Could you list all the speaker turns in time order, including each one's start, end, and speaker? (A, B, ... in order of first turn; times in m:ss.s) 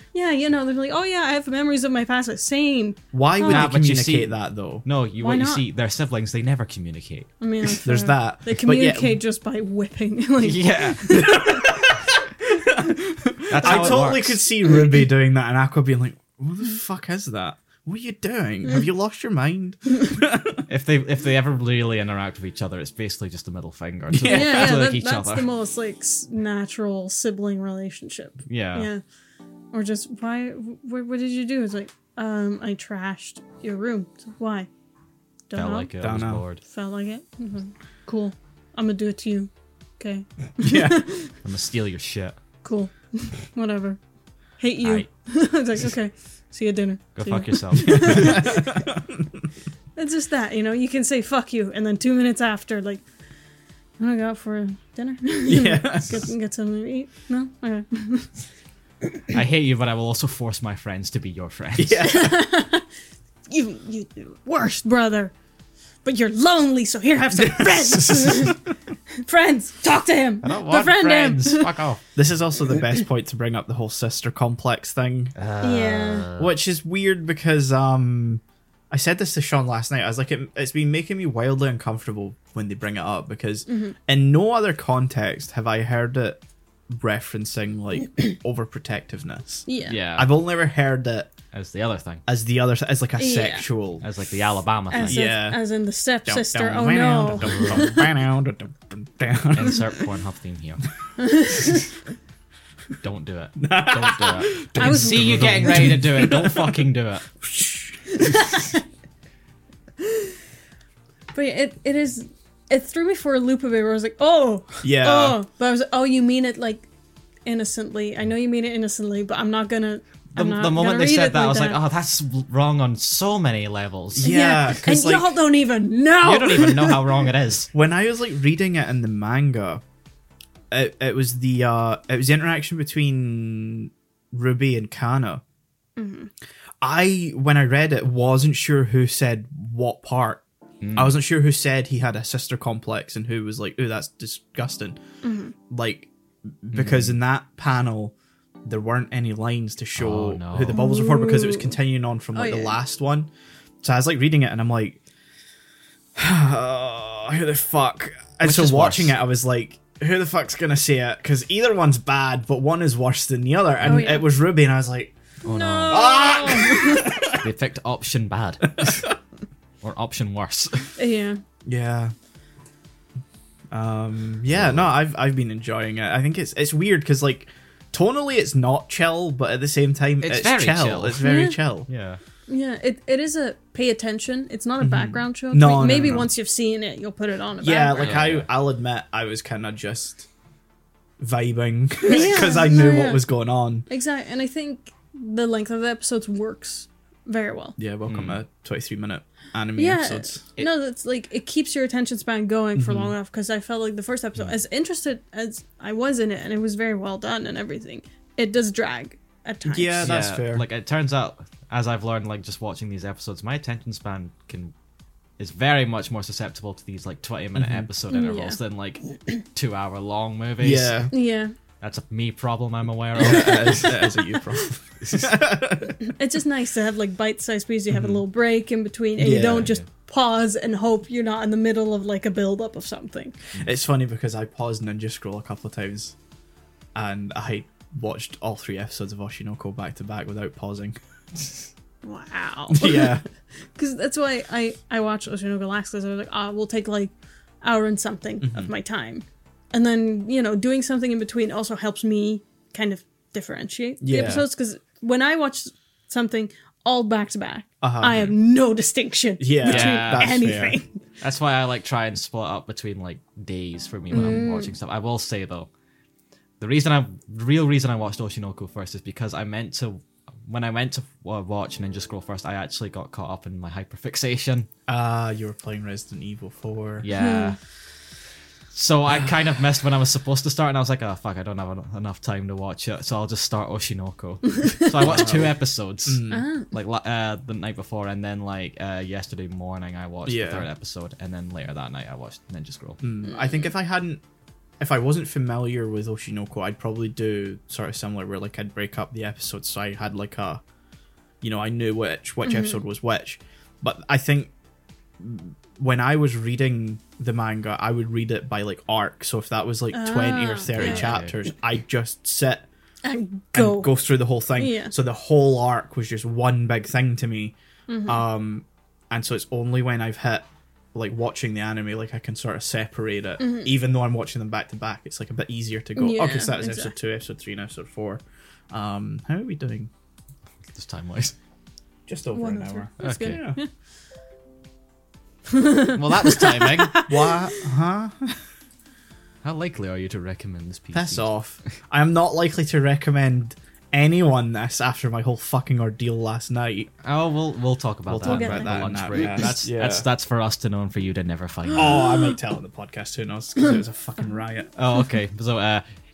0:00.1-0:03.7 A
0:03.1-0:04.9 B
0:03.4-0:07.3 C
0:05.2-0:05.6 A
0:07.4-0:11.6 A
0:07.8-0:09.2 B
0:10.4-0:11.4 C
0:11.1-0:20.6 B
0:13.5-0:14.4 C
0:13.6-0:14.0 A
0:20.7-0:25.5 C
0:24.1-0:24.8 B
0:24.3-0:29.0 A
0:28.5-0:28.9 C
0:29.7-0:34.7 A
0:35.5-0:35.9 A
0:35.5-0:36.6 C
0:36.0-0:36.4 B
0:36.6-0:41.4 A
0:40.6-0:41.0 B
0:41.4-0:42.4 C
0:42.6-0:44.0 A
0:44.6-0:48.8 A
0:44.8-0:45.1 C
0:47.2-0:48.5 C
0:47.9-0:49.2 B
0:50.0-0:53.0 A
0:54.0-0:58.4 A
0:55.5-0:56.3 B
0:59.3-1:02.1 C
1:01.8-1:02.4 B
1:02.0-1:02.8 A
1:03.5-1:05.3 A
1:06.0-1:08.6 A
1:07.4-1:08.5 B
1:09.2-1:11.8 A
1:10.4-1:12.0 C
1:12.2-1:15.4 B
1:15.4-1:16.6 C
1:15.6-1:16.3 A
1:16.4-1:31.3 B
1:23.7-1:24.0 A
1:29.7-1:30.0 A
1:29.9-1:30.3 C
1:31.5-1:32.2 C
1:32.3-1:34.1 B
1:33.2-1:33.7 A
1:34.0-1:35.2 C
1:34.9-1:38.1 A
1:35.1-1:35.6 B
1:36.3-1:40.0 B
1:37.4-1:37.9 C
1:39.5-1:40.8 C
1:41.2-1:41.9 A
1:43.0-1:47.3 C
1:43.6-1:46.8 B
1:44.8-1:46.1 A
1:47.4-1:48.0 B
1:48.2-1:48.8 A
1:50.0-1:50.3 A
1:51.3-1:56.9 A
1:54.8-1:55.4 B
1:57.5-2:01.8 A
2:00.4-2:04.4 C
2:04.2-2:05.3 B
2:04.2-2:07.3 A
2:06.2-2:07.7 C
2:07.7-2:09.8 B
2:10.7-2:15.4 B
2:16.0-2:16.3 A
2:16.8-2:20.4 B
2:20.8-2:21.2 C
2:21.0-2:25.0 B
2:25.2-2:25.5 A
2:25.7-2:26.1 B
2:26.6-2:28.1 B
2:26.7-2:27.2 C
2:28.7-2:33.3 B
2:30.0-2:30.8 C
2:30.7-2:31.8 A
2:32.4-2:32.8 A
2:33.8-2:35.0 B
2:36.2-2:45.1 B
2:38.4-2:39.2 C
2:43.8-2:44.3 A
2:45.4-2:46.5 C
2:45.4-2:47.2 A
2:45.9-2:47.4 B
2:47.2-2:49.1 C
2:48.7-2:49.1 B
2:49.8-2:51.0 C
2:51.0-2:51.4 A
2:51.7-2:52.1 B
2:53.7-3:01.9 B
2:54.5-2:55.0 C
3:00.2-3:01.2 C
3:01.2-3:01.6 A
3:01.9-3:02.2 C
3:02.5-3:08.2 A
3:04.8-3:06.3 B
3:07.6-3:10.3 B
3:08.0-3:08.5 C
3:11.2-3:13.9 B
3:12.0-3:13.2 A
3:13.9-3:17.8 A
3:17.8-3:20.4 B
3:18.1-3:18.4 C
3:19.8-3:30.1 A
3:22.8-3:23.1 B
3:29.6-3:30.6 B
3:30.0-3:34.7 C
3:35.4-3:41.0 C
3:37.6-3:37.9 B
3:38.1-3:38.6 A
3:40.6-3:41.1 B
3:41.1-3:41.5 A
3:41.8-3:44.1 C
3:43.2-3:46.0 B
3:43.3-3:44.0 A
3:45.0-3:45.4 C
3:46.1-3:53.4 A
3:47.9-3:48.2 B
3:49.2-3:49.8 B
3:53.6-3:56.2 B
3:57.0-4:01.0 B
4:02.0-4:03.2 A
4:02.7-4:03.2 B
4:03.8-4:07.1 A
4:07.6-4:21.0 A
4:08.4-4:08.7 B
4:14.0-4:14.5 B
4:17.8-4:18.3 B
4:19.4-4:20.8 B
4:19.6-4:20.5 C
4:21.2-4:25.7 C
4:24.1-4:24.7 A
4:26.6-4:34.7 C
4:34.9-4:37.1 B
4:37.0-4:37.6 C
4:37.1-4:37.6 A
4:38.7-4:53.0 C
4:44.6-4:44.9 A
4:45.0-4:46.4 B
4:46.3-4:46.7 A
4:50.2-4:50.7 B
4:53.0-4:54.2 B
4:54.8-5:00.6 B
5:01.4-5:04.5 B
5:02.4-5:02.8 A
5:05.2-5:12.7 B
5:09.9-5:11.2 A
5:10.7-5:11.3 C
5:13.0-5:14.0 A
5:13.5-5:17.6 B
5:14.6-5:14.9 A
5:17.9-5:18.2 A
5:18.1-5:29.9 B
5:23.4-5:23.7 A
5:26.0-5:26.9 A
5:30.7-5:31.4 C
5:32.1-5:33.6 B
5:32.3-5:33.7 A
5:33.0-5:33.4 C
5:35.5-5:37.6 A
5:35.9-5:37.0 C
5:37.1-5:38.4 B
5:39.4-5:41.3 C
5:40.9-5:46.9 B
5:47.0-5:52.1 C
5:48.1-5:50.1 B
5:48.2-5:49.6 A
5:51.7-5:54.7 B
5:51.7-5:52.4 A
5:54.8-5:55.8 C